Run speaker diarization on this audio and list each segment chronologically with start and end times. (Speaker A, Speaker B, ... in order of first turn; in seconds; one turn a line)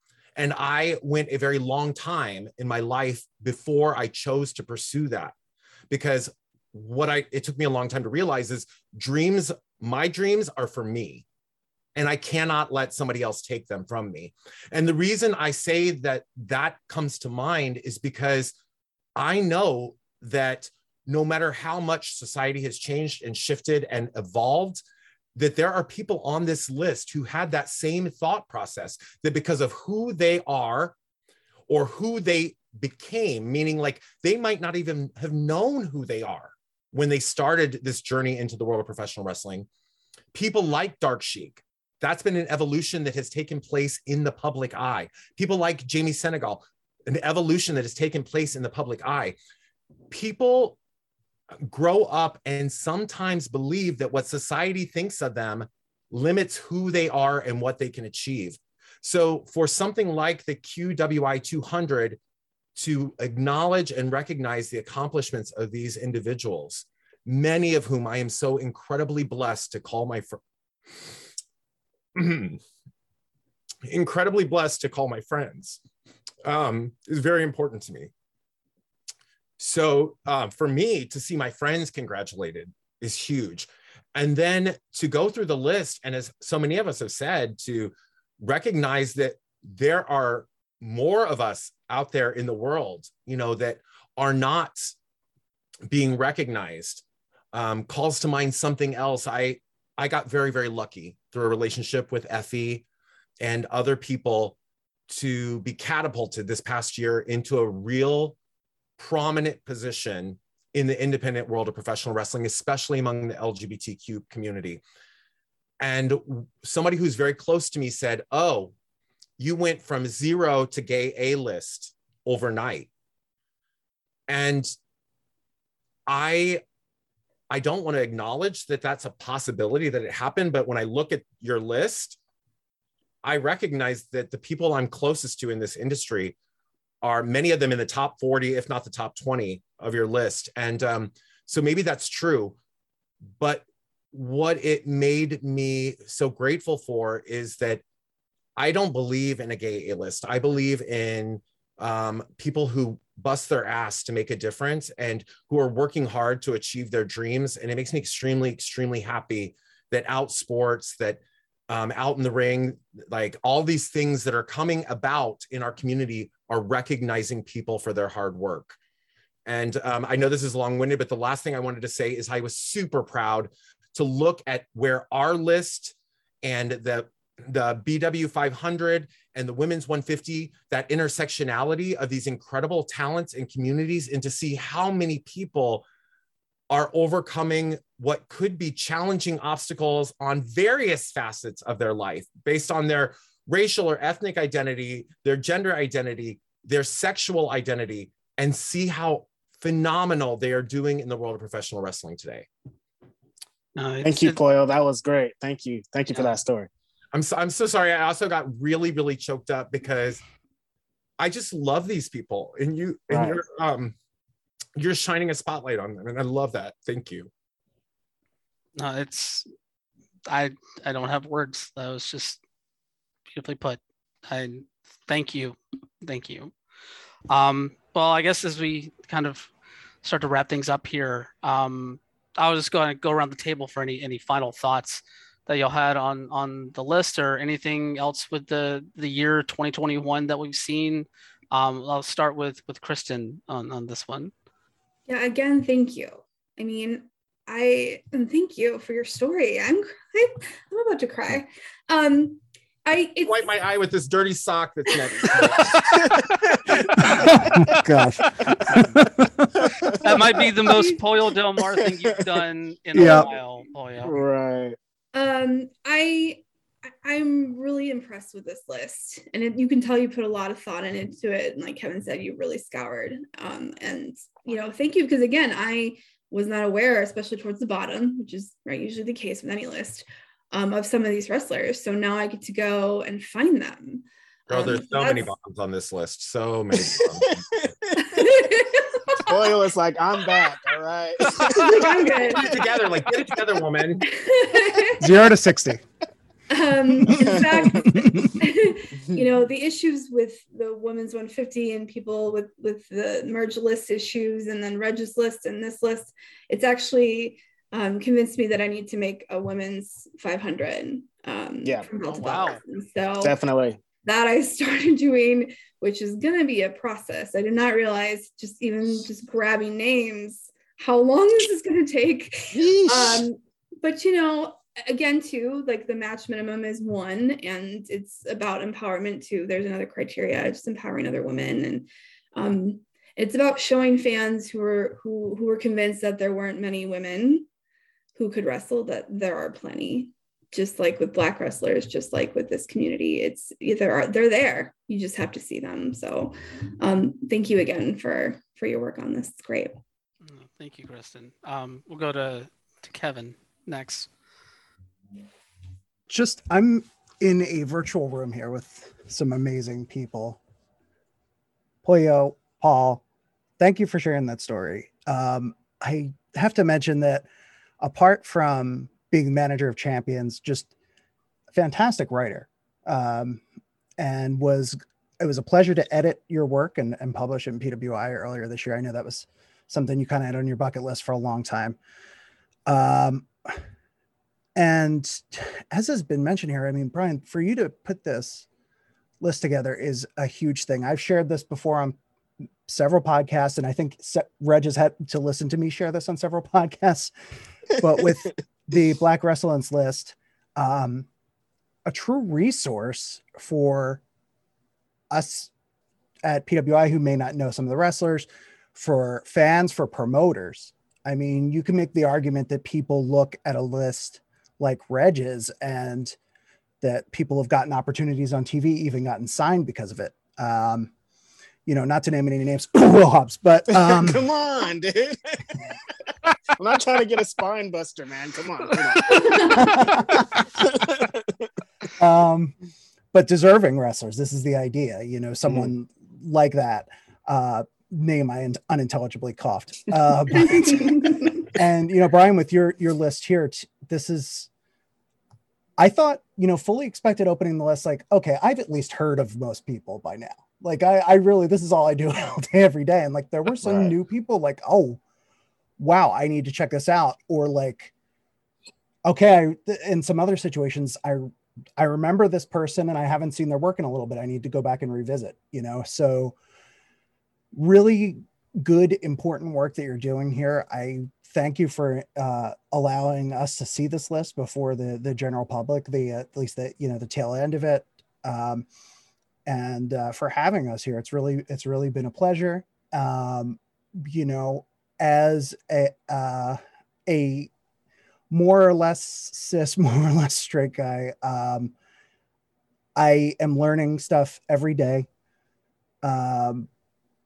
Speaker A: 0.4-5.3
Speaker A: 5.9-11.2
Speaker A: 11.9-18.6
Speaker A: 19.2-24.8
Speaker A: 25.4-30.9
Speaker A: 31.7-39.7
Speaker A: 40.3-49.4
Speaker A: 50.1-50.8
Speaker A: 51.6-62.2
Speaker A: 62.8-70.4
Speaker A: 72.2-72.6
Speaker A: 73.8-75.8
Speaker A: 76.4-78.1
Speaker A: 79.6-95.0
Speaker A: 95.9-102.9
Speaker A: 103.4-104.6
Speaker A: 105.1-108.4
Speaker A: 109.0-114.8
Speaker A: 115.8-118.7
Speaker A: 119.4-122.9
Speaker A: 124.3-124.7
Speaker A: 126.1-126.6
Speaker A: 127.5-132.2
Speaker A: 133.2-136.4
Speaker A: 137.0-142.6
Speaker A: 143.4-147.8
Speaker A: 148.6-168.8
Speaker A: 169.5-185.8
Speaker A: 186.7-202.5
Speaker B: 203.8-204.4
Speaker C: 204.0-206.7
Speaker A: 207.1-210.2
Speaker A: 211.2-213.9
Speaker C: 213.1-213.4
Speaker A: 214.8-217.3
Speaker B: 218.8-219.5
Speaker B: 220.3-222.4
Speaker B: 223.3-226.5
Speaker B: 227.3-229.5
Speaker B: 230.0-244.3
Speaker D: 245.1-253.4
Speaker A: 253.2-256.0
Speaker D: 254.9-255.3
Speaker C: 255.8-257.8
Speaker E: 257.0-259.5
Speaker B: 257.5-257.8
Speaker B: 258.4-258.9
Speaker C: 259.5-260.8
Speaker B: 260.0-264.2
Speaker D: 260.7-261.0
Speaker C: 261.7-262.1
Speaker E: 262.9-263.3
Speaker C: 263.0-263.2
Speaker C: 264.0-264.8
Speaker D: 265.1-285.3
Speaker A: 284.5-287.5
Speaker C: 286.9-288.4
Speaker D: 288.1-289.5
Speaker C: 289.3-292.0
Speaker B: 291.4-291.6
Speaker D: 291.5-292.6
Speaker A: 292.4-294.1
Speaker D: 294.0-295.1
Speaker E: 295.0-295.8
Speaker D: 296.5-313.4
Speaker C: 297.0-297.9
Speaker E: 297.8-298.4
Speaker C: 299.0-299.3
Speaker C: 311.6-311.9
Speaker B: 312.1-312.6
Speaker C: 313.2-313.8
Speaker D: 314.0-337.5
Speaker C: 322.5-323.3
Speaker D: 338.2-349.8
Speaker B: 350.2-354.1
Speaker E: 356.1-360.4
Speaker E: 361.8-363.0
Speaker E: 363.6-367.3
Speaker E: 367.8-370.7
Speaker E: 371.5-373.4
Speaker E: 374.0-381.8
Speaker E: 382.7-383.6
Speaker E: 384.6-388.5
Speaker E: 389.2-392.0
Speaker E: 392.7-397.1
Speaker E: 397.8-401.1
Speaker E: 401.9-404.0
Speaker E: 405.1-405.5
Speaker E: 406.2-416.2
Speaker E: 416.8-420.9
Speaker E: 421.7-424.2
Speaker C: 423.8-425.6
Speaker C: 426.6-431.5
Speaker D: 429.1-429.9
Speaker E: 429.5-430.5
Speaker E: 432.0-432.6
Speaker E: 433.1-444.5
Speaker E: 445.8-455.0
Speaker C: 453.6-453.9
Speaker E: 455.8-457.9
Speaker E: 459.1-466.4
Speaker E: 467.5-478.7
Speaker E: 479.5-487.5
Speaker E: 488.3-491.7
Speaker E: 493.0-495.1
Speaker E: 496.0-496.7